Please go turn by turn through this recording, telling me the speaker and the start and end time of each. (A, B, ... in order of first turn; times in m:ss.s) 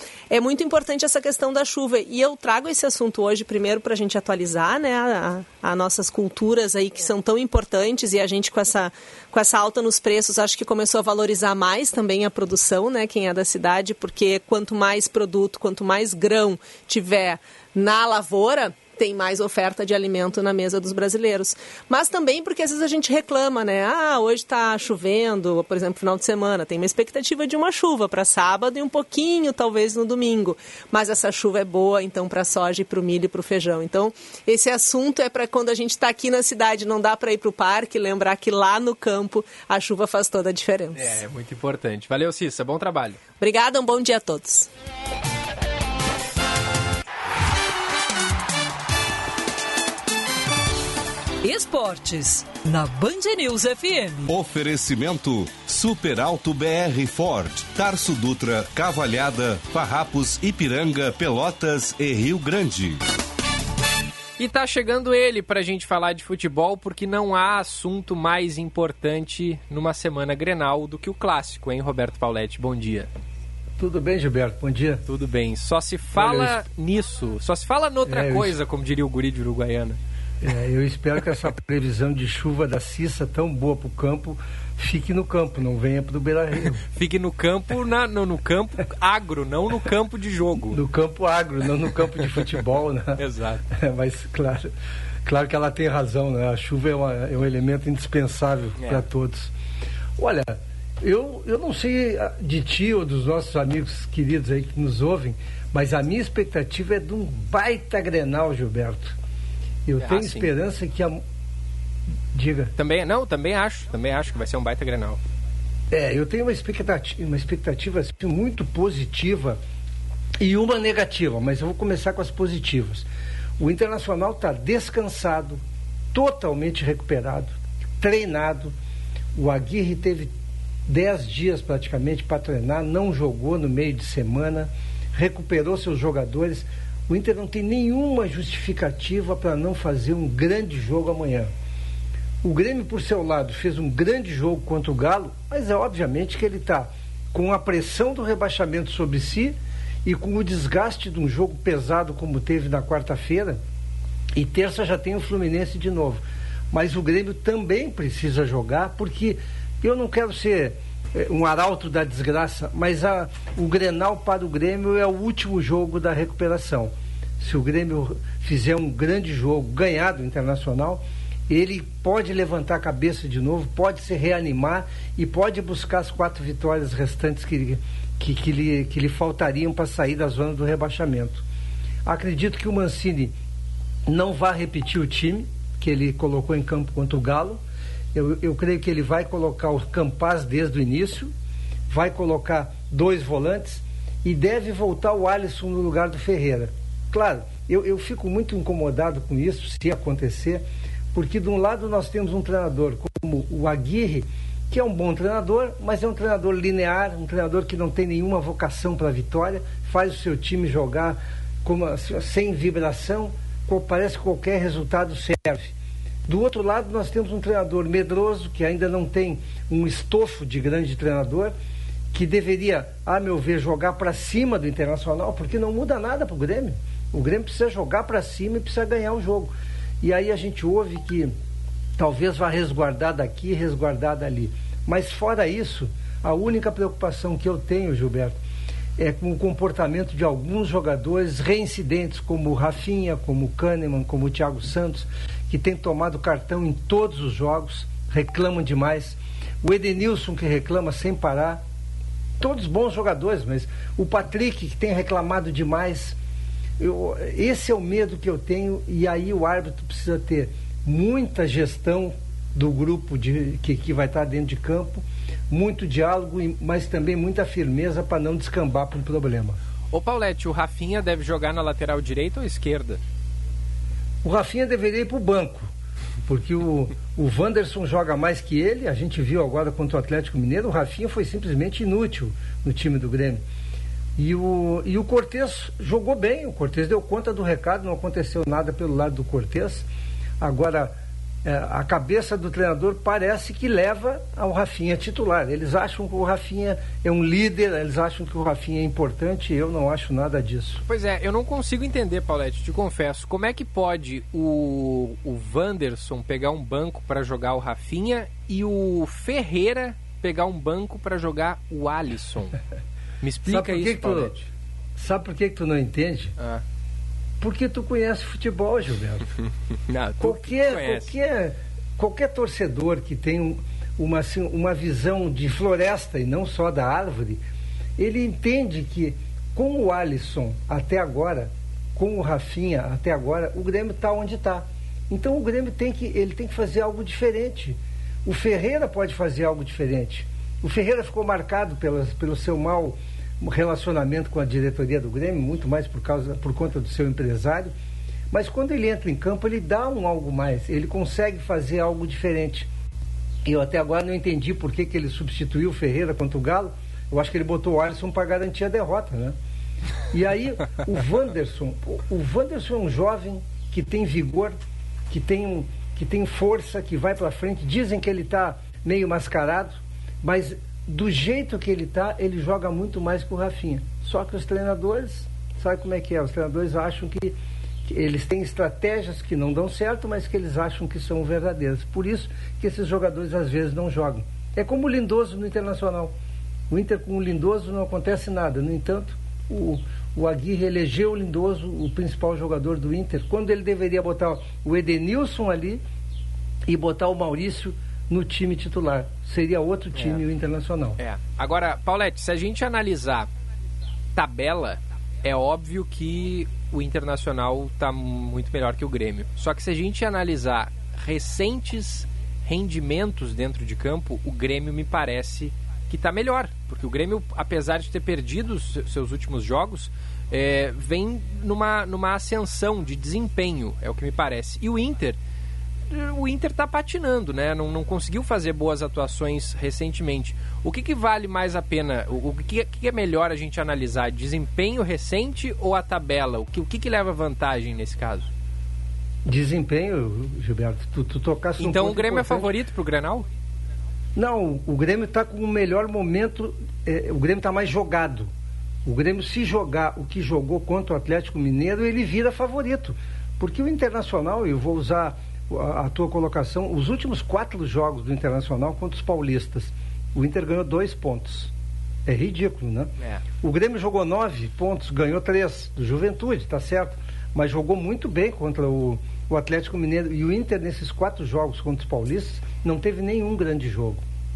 0:00.3-0:41.1 A
0:41.0-0:43.2 B
0:43.4-0:44.7 A
0:51.4-0:54.3 C
0:54.3-1:03.0 D
1:04.4-1:13.1 B
1:13.8-1:15.0 E
1:15.1-1:20.0 B
1:16.2-1:16.6 E
1:18.1-1:18.5 E
1:20.4-1:26.8 E
1:26.8-1:30.8 B
1:30.7-1:33.2 E
1:33.2-1:33.6 B
1:33.8-1:34.7 E
1:35.3-1:39.5 E
1:38.8-1:39.0 B
1:40.2-1:49.1 E
1:49.9-1:51.2 E
1:50.0-1:50.5 B
1:52.3-1:52.7 E
1:52.8-1:55.2 B
1:55.9-1:59.6 E
2:00.4-2:03.0 E
2:03.6-2:05.6 E
2:06.1-2:08.7 E
2:09.4-2:10.3 E
2:10.9-2:21.5 E
2:22.4-2:33.6 E
2:34.4-3:01.4 E
3:02.1-3:03.3 E
3:04.1-3:07.6 E
3:08.2-3:11.3 E
3:11.9-3:35.7 E
3:36.3-3:41.5 E
3:42.1-3:51.3 E
3:52.0-3:58.4 E
3:59.0-4:11.6 E
4:12.4-4:16.2 E
4:16.8-4:29.6 E
4:29.9-4:33.0 B
4:34.2-4:35.7 E
4:36.3-4:43.4 E
4:44.2-4:49.8 E
4:50.4-4:50.9 E
4:51.4-5:00.8 E
5:00.9-5:12.6 B
5:13.2-5:14.5 B
5:13.5-5:14.3 E
5:15.0-5:16.3 E
5:17.4-5:19.2 E
5:19.9-5:21.1 B
5:20.2-5:27.4 E
5:28.0-5:47.7 E
5:48.3-5:52.7 E
5:53.5-5:59.4 E
6:00.1-6:04.6 E
6:05.1-6:17.4 E
6:17.9-6:26.1 E
6:26.7-6:35.8 E
6:36.7-6:41.0 E
6:39.9-6:40.2 B
6:41.0-6:43.3 B
6:44.2-7:05.2 B
7:05.9-7:18.3 B
7:19.3-7:22.5 E
7:21.6-7:23.3 B
7:24.2-7:28.3 E
7:28.8-7:41.5 E
7:42.1-7:54.0 E